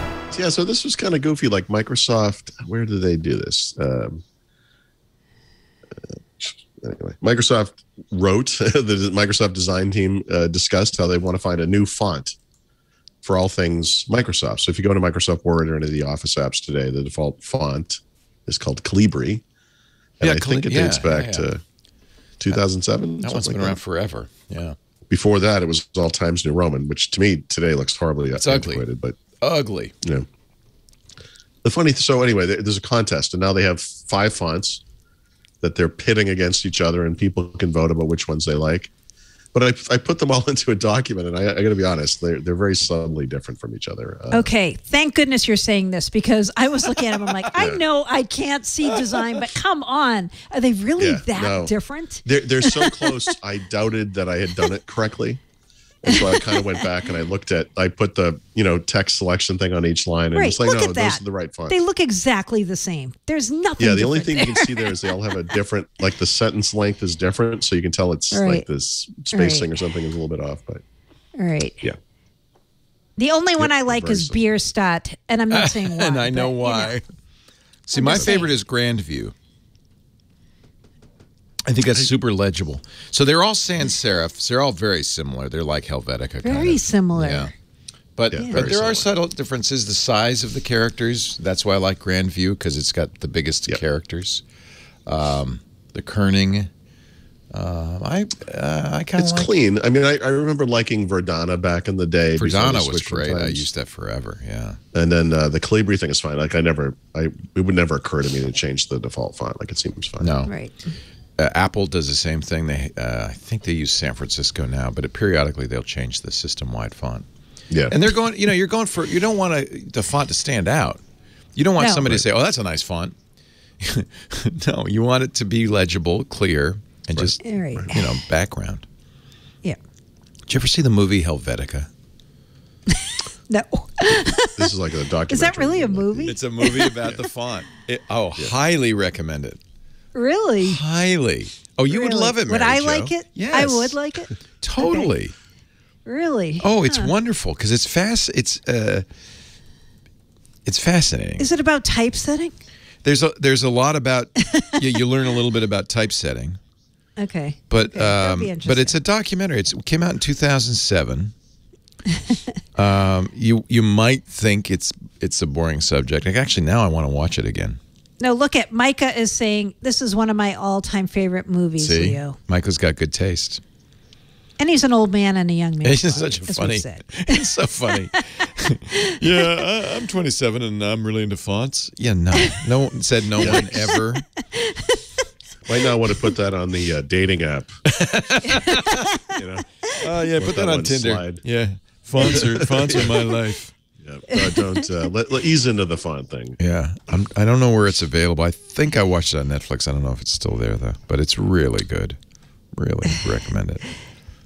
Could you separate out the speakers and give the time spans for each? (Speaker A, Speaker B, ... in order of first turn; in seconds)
Speaker A: 0.3-4.2, 6.0-12.4, 13.2-19.4, 20.2-21.6, 22.4-23.8, 25.1-29.2, 31.6-34.8, 35.6-38.9, 39.5-44.5, 47.5-47.8, 51.0-55.4, 56.0-61.8, 63.8-70.8, 73.6-74.5, 88.3-89.1, 99.2-103.7, 104.9-110.3, 117.7-118.0, 127.2-127.9, 134.6-136.4, 183.4-183.9, 185.7-187.8, 189.2-189.7, 190.4-191.4, 192.2-193.4, 194.0-196.6
Speaker B: 20.2-21.5, 23.2-24.8, 28.4-28.9, 29.4-29.9, 75.5-77.0, 77.9-79.3, 81.7-87.5, 88.2-94.4, 95.1-96.7, 97.5-99.5, 102.4-104.8, 110.2-110.5, 111.4-117.3, 117.9-121.0, 121.6-123.2, 123.8-128.8, 130.5-131.9, 136.2-139.6, 140.6-144.0, 144.6-145.3, 146.6-149.1, 150.7-151.5, 153.0-156.6, 157.7-161.3, 162.8-167.8, 171.8-173.6, 175.8-184.2, 187.9-189.0, 190.0-193.8, 196.6-202.2, 202.8-203.9
Speaker C: 44.3-53.3, 56.1-56.8, 60.3-65.3, 68.3-68.7, 69.3-69.7, 71.4-71.8, 73.2-77.0, 77.9-78.5, 86.4-87.5, 88.4-88.6, 110.5-110.8, 121.8-122.2, 127.4-128.1, 133.5-134.7, 135.3-137.0, 140.1-140.8, 141.9-145.1, 146.1-147.1, 151.4-152.6, 154.5-154.8, 157.2-159.0, 168.2-172.4, 174.6-178.2, 179.3-179.7, 183.9-185.2, 188.4-189.9, 194.3-194.9